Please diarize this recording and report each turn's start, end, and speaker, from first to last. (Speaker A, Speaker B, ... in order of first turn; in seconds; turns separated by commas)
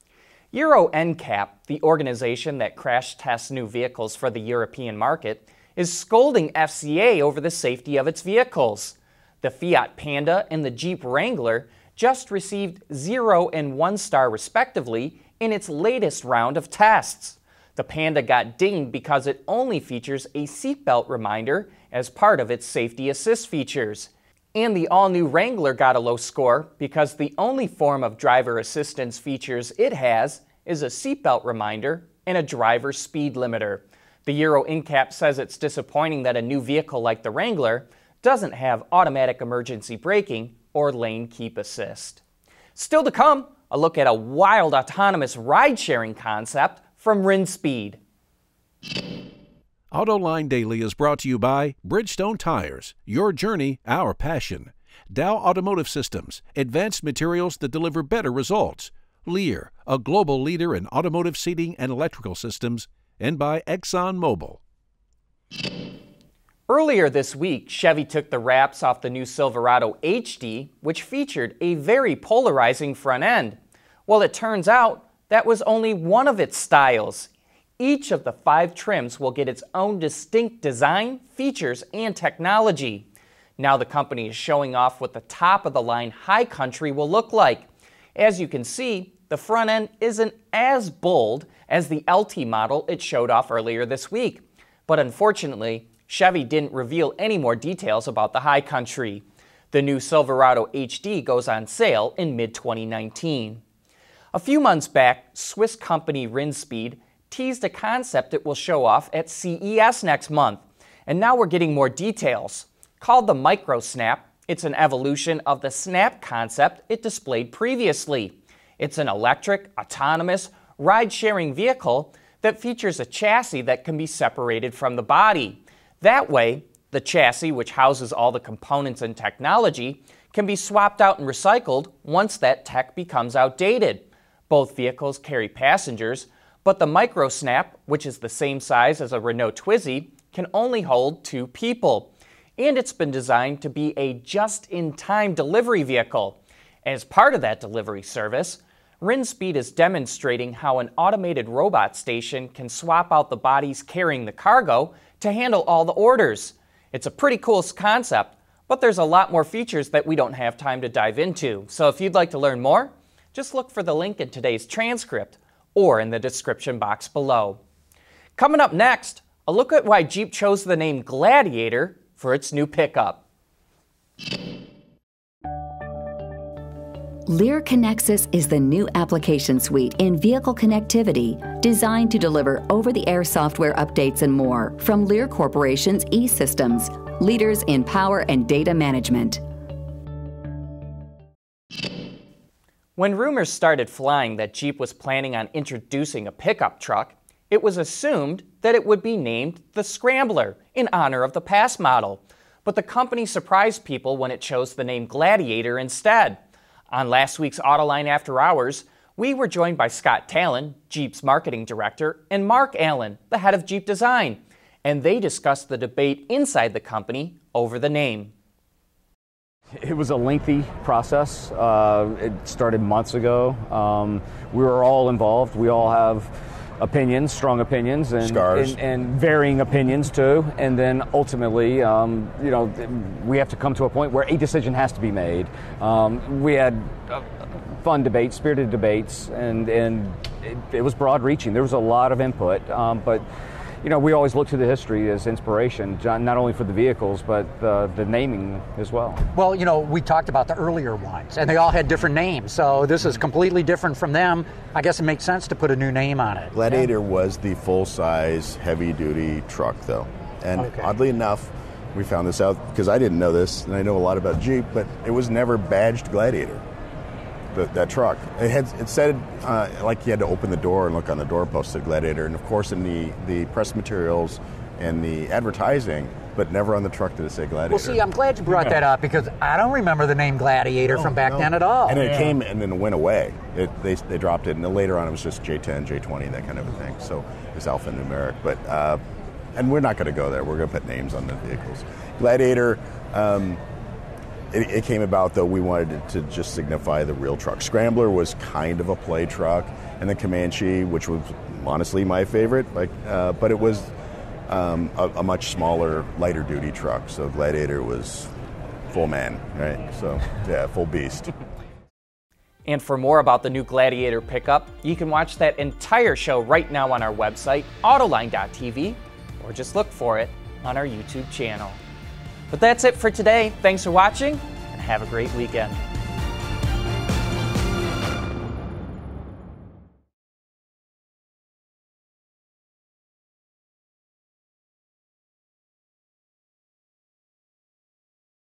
Speaker A: 0.5-42.2, Speaker A: 42.8-48.0, Speaker B: 49.9-64.6, Speaker A: 66.7-83.1, Speaker A: 83.6-103.6, Speaker A: 104.3-167.6, Speaker A: 168.4-173.2, Speaker C: 177.3-189.4, Speaker A: 192.9-206.4, Speaker A: 206.9-218.3, Speaker D: 219.7-237.2, Speaker E: 228.2-228.8, Speaker D: 237.8-243.2, Speaker D: 243.8-249.2, Speaker F: 249.3-256.5, Speaker E: 256.5-266.6, Speaker F: 260.6-260.8, Speaker E: 267.5-278.8, Speaker F: 277.7-282.2, Speaker E: 280.9-289.0, Speaker E: 289.6-293.6, Speaker E: 294.5-303.9, Speaker E: 304.5-308.3, Speaker E: 308.9-311.3, Speaker A: 312.6-321.8, Speaker A: 322.5-325.8